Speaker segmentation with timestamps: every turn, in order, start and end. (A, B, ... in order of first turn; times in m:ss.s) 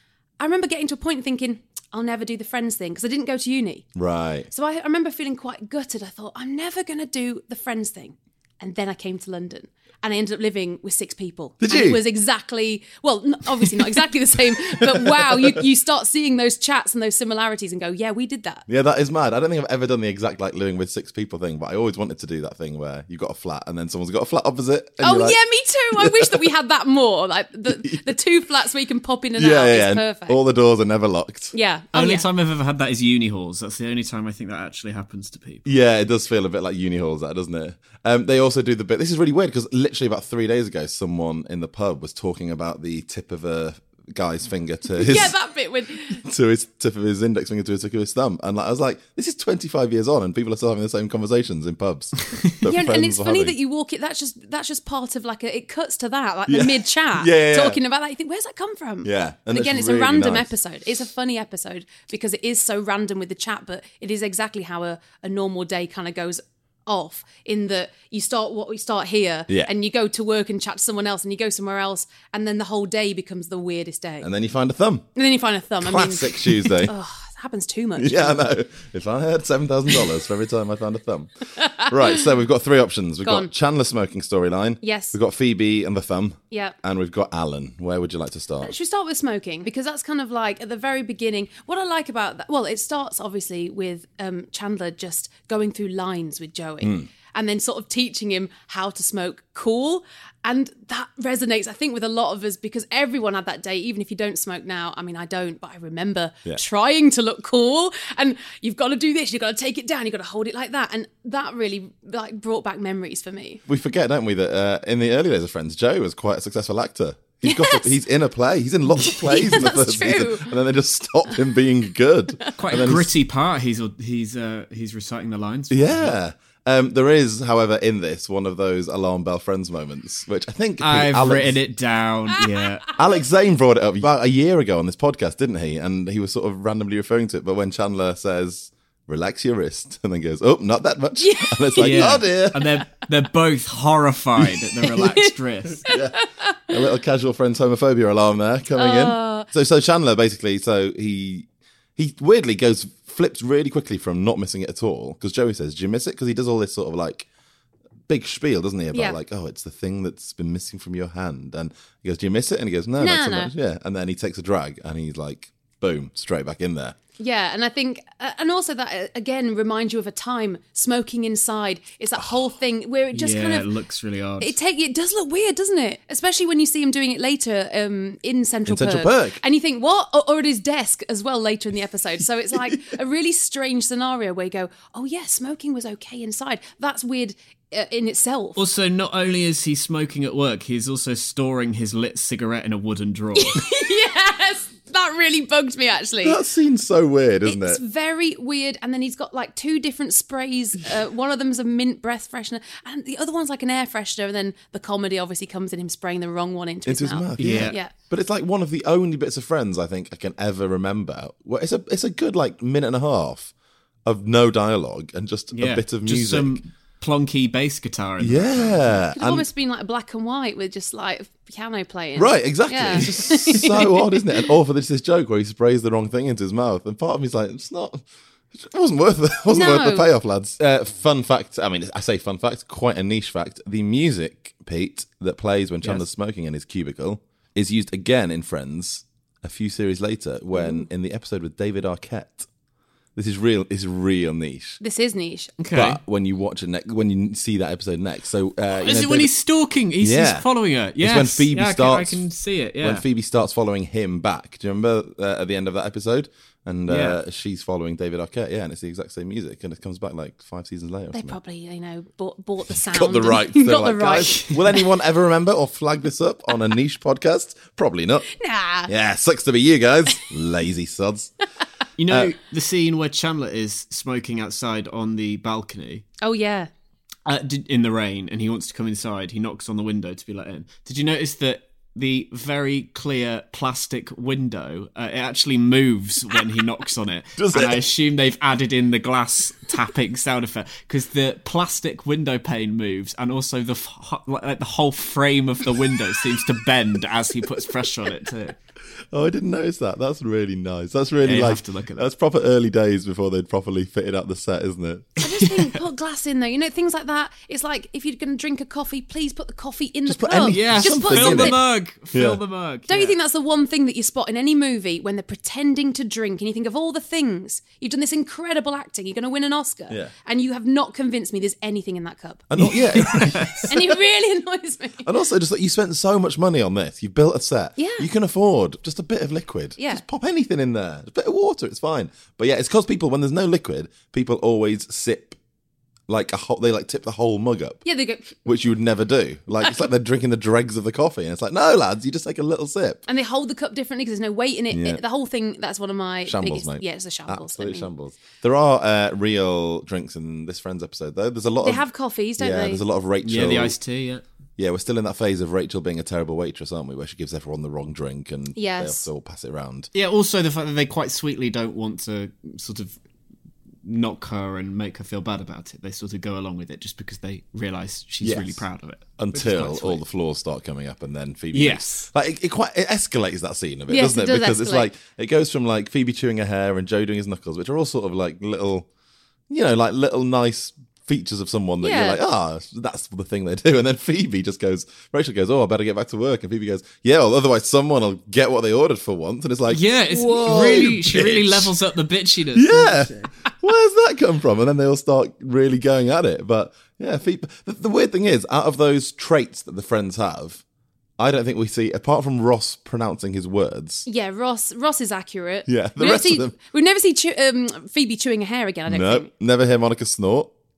0:00.4-0:03.8 A
0:03.9-0:04.5 B
0:04.5-0:18.6 A
0:11.6-0:12.0 B
0:14.7-0:15.6 B
0:18.7-0:25.4 B
0:25.0-0:30.4 A
0:26.0-0:26.4 B
0:29.4-0:31.5 B
0:31.5-0:32.2 A
0:31.9-0:35.6 C
0:35.6-0:45.4 B
0:45.0-0:46.2 A
0:46.1-0:53.5 B
0:52.6-1:14.3 A
0:56.5-0:57.8 B
0:59.0-1:00.5 B
1:14.2-1:15.1 B
1:15.2-1:18.4 A
1:15.8-1:16.9 B
1:18.0-1:28.7 B
1:21.6-1:22.2 A
1:23.2-1:23.5 A
1:24.8-1:25.2 A
1:26.5-1:26.8 A
1:28.6-1:53.6 A
1:36.8-1:37.1 B
1:53.7-2:03.1 B
1:57.4-1:57.9 A
1:59.0-2:00.5 A
2:02.6-2:06.1 C
2:05.7-2:11.6 B
2:10.8-2:12.9 C
2:13.0-2:22.7 B
2:21.2-2:22.2 A
2:21.8-2:25.8 C
2:25.8-2:37.3 B
2:25.9-2:26.2 A
2:28.8-2:29.5 A
2:38.1-2:47.0 B
2:38.9-2:39.2 A
2:43.0-2:43.5 A
2:47.2-2:53.7 A
2:53.1-2:54.6 C
2:54.4-3:08.6 A
2:58.7-2:59.4 B
3:08.6-3:13.6 C
3:13.4-3:16.4 A
3:16.2-3:17.8 B
3:17.4-3:27.9 A
3:26.8-3:33.5 B
3:27.4-3:27.8 C
3:34.0-3:36.6 B
3:35.5-3:39.0 C
3:38.2-3:39.4 B
3:39.1-3:44.2 A
3:42.2-3:48.0 B
3:48.5-4:02.5 B
3:49.5-3:50.1 A
4:00.5-4:00.8 A
4:03.2-4:04.8 B
4:04.8-4:05.5 A
4:05.6-4:06.0 C
4:05.7-4:09.3 B
4:08.7-4:13.0 C
4:10.0-4:10.5 B
4:11.0-4:12.2 B
4:12.8-4:21.4 B
4:16.9-4:17.2 C
4:21.1-4:24.5 A
4:22.7-4:28.3 B
4:28.4-4:28.9 A
4:28.9-4:31.3 B
4:32.0-4:36.0 C
4:32.1-4:32.3 B
4:36.2-4:36.7 A
4:37.2-4:58.6 C
4:47.4-4:47.9 B
4:59.1-5:05.1 B
5:01.2-5:02.1 C
5:05.2-5:11.6 A
5:05.3-5:05.8 C
5:10.0-5:12.4 B
5:10.5-5:13.2 C
5:12.9-5:22.5 A
5:22.5-5:24.0 B
5:22.6-5:23.6 C
5:23.7-5:25.1 A
5:25.0-5:35.4 B
5:27.8-5:28.1 A
5:29.8-5:30.0 A
5:36.1-5:37.8 B
5:37.8-5:38.4 A
5:38.4-5:43.0 B
5:43.1-5:47.9 A
5:44.7-5:45.0 B
5:46.2-5:53.8 B
5:51.6-5:52.8 A
5:53.2-5:54.2 C
5:54.6-5:59.9 B
5:58.5-5:59.0 A
5:59.9-6:03.0 C
6:03.8-6:10.0 C
6:08.2-6:08.6 B
6:09.2-6:18.9 B
6:11.5-6:12.1 C
6:13.9-6:14.9 A
6:19.5-6:31.7 B
6:21.8-6:22.2 A
6:29.7-6:33.3 C
6:32.5-6:40.6 B
6:41.2-6:44.0 B
6:44.0-6:49.3 A
6:45.7-6:46.6 B
6:48.9-6:50.5 B